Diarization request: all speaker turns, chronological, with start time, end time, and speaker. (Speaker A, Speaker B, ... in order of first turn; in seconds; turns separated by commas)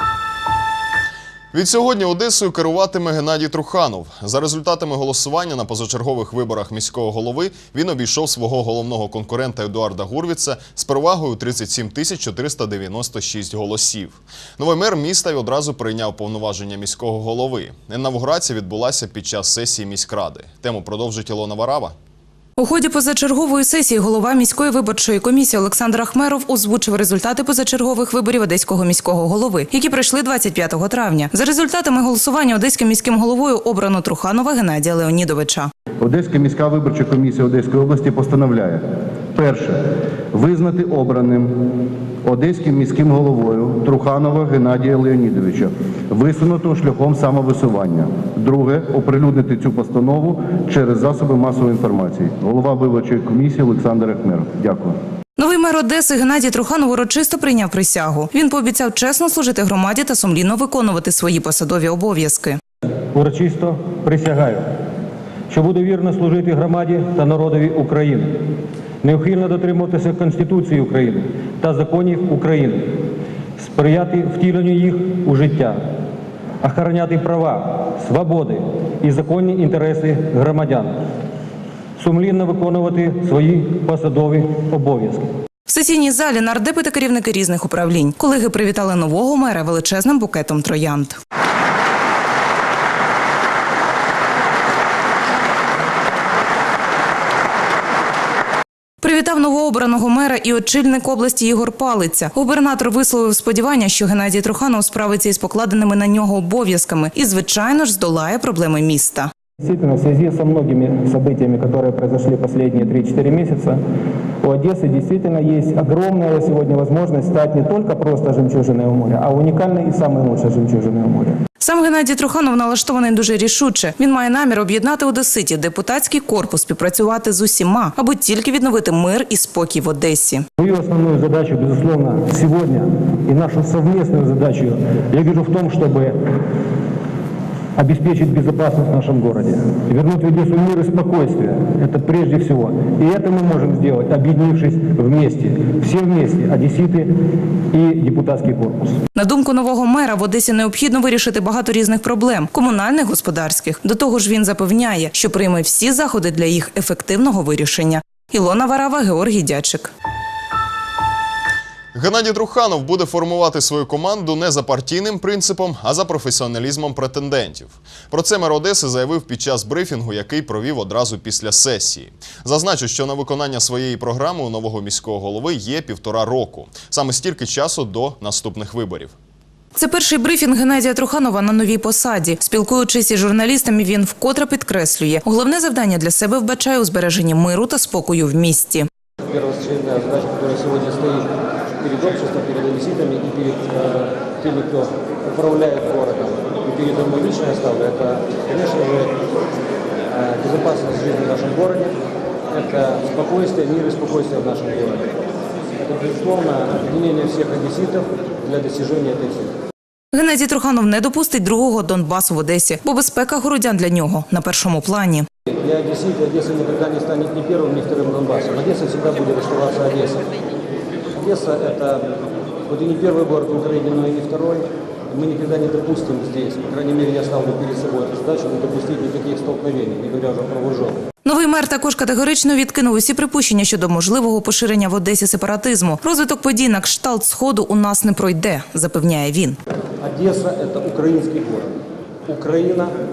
Speaker A: 1.5-21.9, Speaker B: 22.6-35.7, Speaker C: 36.0-38.8, Speaker C: 39.3-41.6, Speaker C: 42.2-55.0, Speaker B: 55.4-62.6, Speaker D: 63.1-64.7, Speaker D: 65.5-68.4, Speaker D: 69.0-73.0, Speaker D: 73.6-75.8, Speaker D: 76.6-81.0, Speaker D: 82.0-85.2, Speaker B: 85.7-91.2, Speaker B: 99.0-109.3, Speaker D: 109.6-113.8, Speaker D: 114.4-121.4, Speaker B: 121.6-130.4, Speaker D: 130.6-136.3, Speaker D: 137.8-147.1, Speaker D: 147.7-149.0, Speaker B: 149.1-159.9, Speaker A: 161.9-179.1, Speaker B: 179.8-188.9, Speaker E: 189.3-191.3, Speaker E: 191.8-199.1, Speaker E: 200.1-201.9, Speaker E: 202.5-205.1, Speaker E: 205.8-209.5, Speaker B: 210.1-215.3, Speaker E: 215.5-220.3, Speaker E: 221.1-222.0, Speaker E: 222.7-231.0, Speaker B: 231.2-239.6, Speaker E: 240.0-241.7, Speaker E: 242.3-242.9